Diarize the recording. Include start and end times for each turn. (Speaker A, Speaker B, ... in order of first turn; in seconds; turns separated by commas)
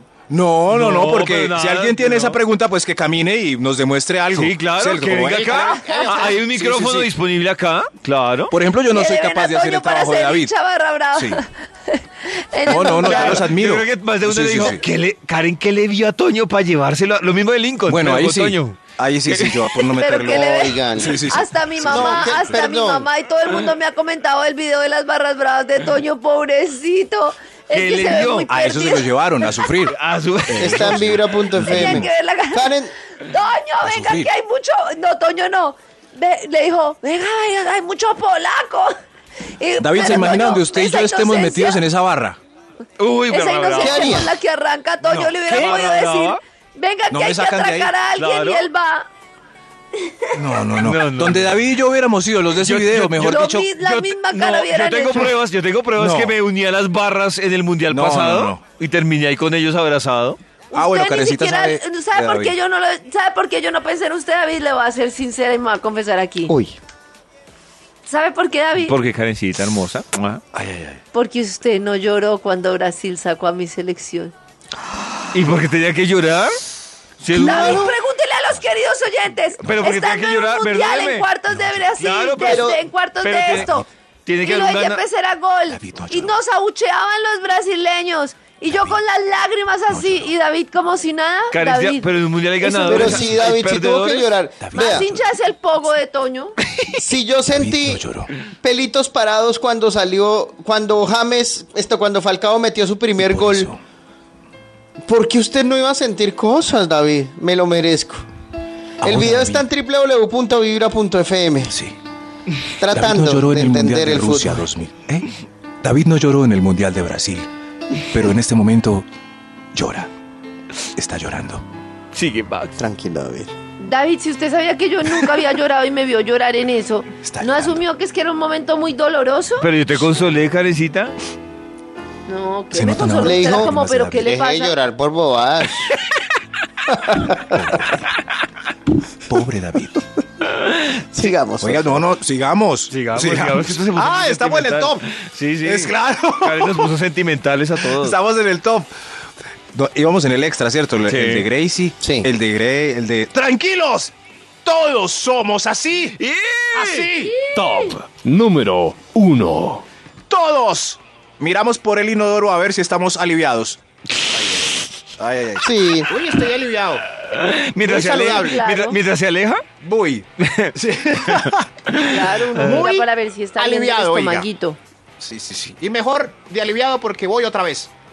Speaker A: 0.3-7.1, Speaker B: 0.7-2.4, Speaker B: 4.3-8.5, Speaker C: 5.8-6.1, Speaker A: 8.5-10.5, Speaker C: 8.9-13.4, Speaker A: 11.1-11.4, Speaker A: 12.7-14.8, Speaker D: 12.7-13.3, Speaker B: 12.9-19.8, Speaker A: 17.9-22.5, Speaker C: 19.9-29.6, Speaker D: 20.3-23.1, Speaker B: 27.7-28.5, Speaker A: 28.5-29.9, Speaker B: 29.9-30.9, Speaker A: 30.5-32.1, Speaker D: 30.6-32.9, Speaker C: 31.6-39.0, Speaker A: 33.8-34.3, Speaker C: 39.6-41.8, Speaker A: 39.8-42.4, Speaker B: 43.0-44.2, Speaker C: 43.3-49.1, Speaker D: 43.8-44.4, Speaker A: 45.0-45.9, Speaker B: 45.5-46.4, Speaker A: 47.1-47.9, Speaker B: 48.1-48.7, Speaker A: 50.3-53.7, Speaker B: 50.8-51.5, Speaker B: 52.5-60.4, Speaker C: 53.2-55.3, Speaker A: 56.0-56.4, Speaker A: 57.9-58.6, Speaker C: 60.7-66.5, Speaker A: 60.7-62.6, Speaker D: 66.5-66.8, Speaker C: 68.1-69.0, Speaker B: 68.8-70.4, Speaker A: 70.5-71.0, Speaker C: 71.1-74.3, Speaker B: 75.3-76.6, Speaker B: 77.2-77.9, Speaker C: 77.4-83.9, Speaker D: 77.4-77.8, Speaker A: 77.4-77.8, Speaker B: 79.6-81.3, Speaker A: 81.5-81.9, Speaker B: 82.0-85.0, Speaker D: 82.4-82.8, Speaker A: 83.5-83.8, Speaker C: 84.4-93.2, Speaker A: 85.7-86.4, Speaker A: 88.7-89.0, Speaker A: 89.9-90.3, Speaker B: 91.5-94.3, Speaker D: 92.7-95.1, Speaker A: 94.6-95.3, Speaker C: 94.7-96.6, Speaker D: 96.9-98.0, Speaker A: 97.5-98.3, Speaker D: 98.6-103.7, Speaker A: 103.2-103.8, Speaker D: 105.0-108.2, Speaker D: 109.0-111.7, Speaker A: 109.0-109.7, Speaker A: 111.7-112.0, Speaker D: 112.8-114.7, Speaker A: 112.9-115.3, Speaker A: 115.8-117.5, Speaker A: 118.0-119.1, Speaker A: 119.7-120.1, Speaker A: 120.9-121.6, Speaker B: 122.1-122.8, Speaker D: 122.8-123.5, Speaker C: 123.8-129.7, Speaker A: 127.2-127.8, Speaker B: 129.6-131.2, Speaker C: 132.3-134.8, Speaker A: 132.7-134.3, Speaker D: 133.2-136.0, Speaker D: 136.9-137.8, Speaker A: 137.4-138.1, Speaker A: 139.3-140.0, Speaker D: 141.1-142.0, Speaker A: 141.6-145.1, Speaker B: 142.9-148.2, Speaker A: 145.6-146.9, Speaker A: 147.9-148.9, Speaker A: 149.7-156.2, Speaker B: 151.1-151.5, Speaker D: 152.0-152.3, Speaker B: 156.2-157.1, Speaker A: 156.7-157.4, Speaker C: 157.2-158.0, Speaker E: 157.4-159.8, Speaker A: 160.3-167.0, Speaker D: 165.6-166.1, Speaker B: 167.2-169.6, Speaker A: 167.8-168.6, Speaker C: 168.1-169.0, Speaker A: 169.8-171.7, Speaker B: 170.4-170.8, Speaker B: 171.3-172.0, Speaker C: 172.1-174.8, Speaker A: 172.5-174.5, Speaker A: 175.2-177.9